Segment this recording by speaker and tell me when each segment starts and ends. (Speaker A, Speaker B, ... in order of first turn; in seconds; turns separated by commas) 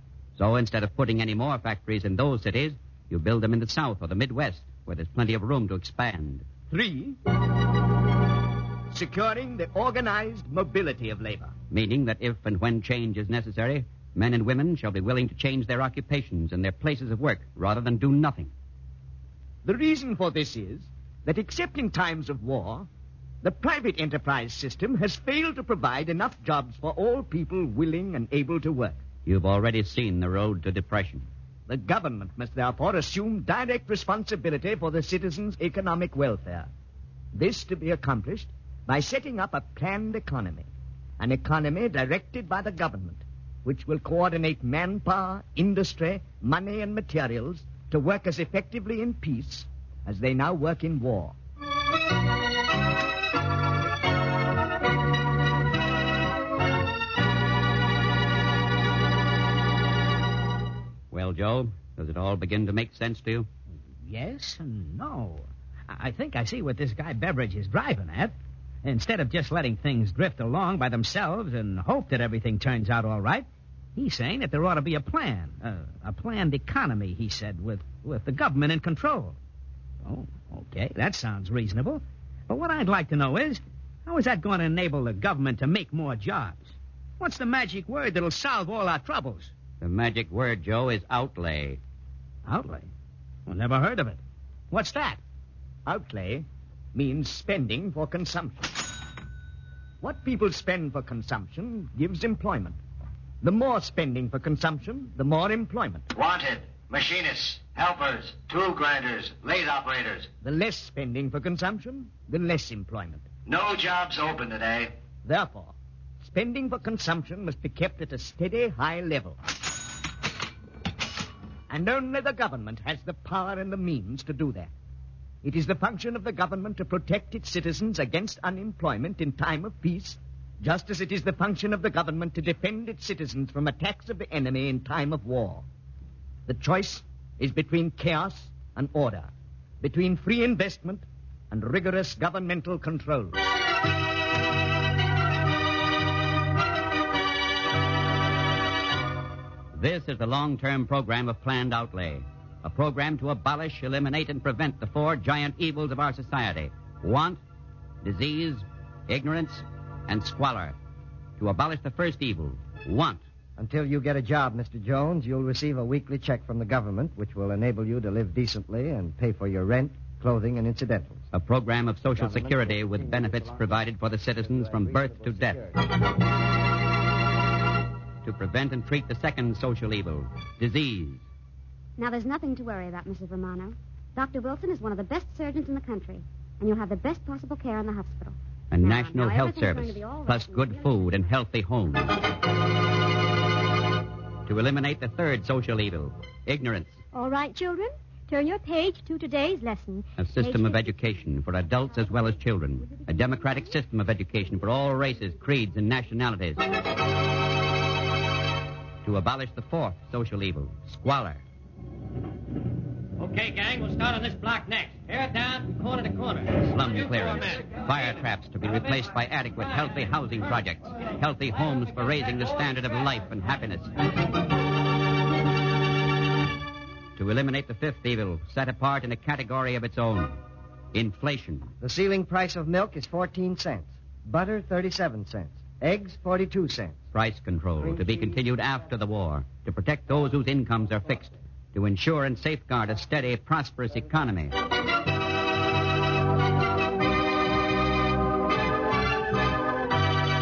Speaker A: 0.4-6.5, Speaker B: 6.7-7.2, Speaker B: 8.9-11.5, Speaker A: 11.7-18.5, Speaker B: 19.6-22.9, Speaker B: 23.4-29.0, Speaker A: 29.2-31.3, Speaker B: 31.7-36.7, Speaker B: 37.3-40.7, Speaker B: 41.2-51.4, Speaker A: 61.1-63.5, Speaker C: 64.0-79.4, Speaker C: 80.0-89.5, Speaker A: 89.8-91.8, Speaker C: 92.5-92.9, Speaker C: 93.5-94.2, Speaker C: 94.7-95.2, Speaker B: 95.9-98.8, Speaker B: 100.0-102.8, Speaker B: 103.4-106.0, Speaker D: 106.1-110.3, Speaker B: 110.4-113.3, Speaker D: 113.5-114.9, Speaker B: 115.2-119.4, Speaker B: 121.7-124.7, Speaker B: 125.4-135.7, Speaker B: 136.5-139.3, Speaker B: 139.8-143.5, Speaker A: 149.8-157.4, Speaker A: 158.0-160.8, Speaker A: 161.4-163.2, Speaker E: 163.6-171.2, Speaker A: 171.3-175.6, Speaker E: 172.2-173.5, Speaker E: 174.5-175.7, Speaker A: 178.2-181.2, Speaker F: 182.0-191.3, Speaker A: 188.7-192.2, Speaker A: 194.5-197.0, Speaker G: 197.1-200.5, Speaker A: 200.2-206.6, Speaker A: 209.0-211.4, Speaker H: 213.2-217.7, Speaker A: 216.7-224.0, Speaker A: 227.2-230.4, Speaker A: 230.9-231.7, Speaker E: 231.8-236.9, Speaker A: 237.1-244.5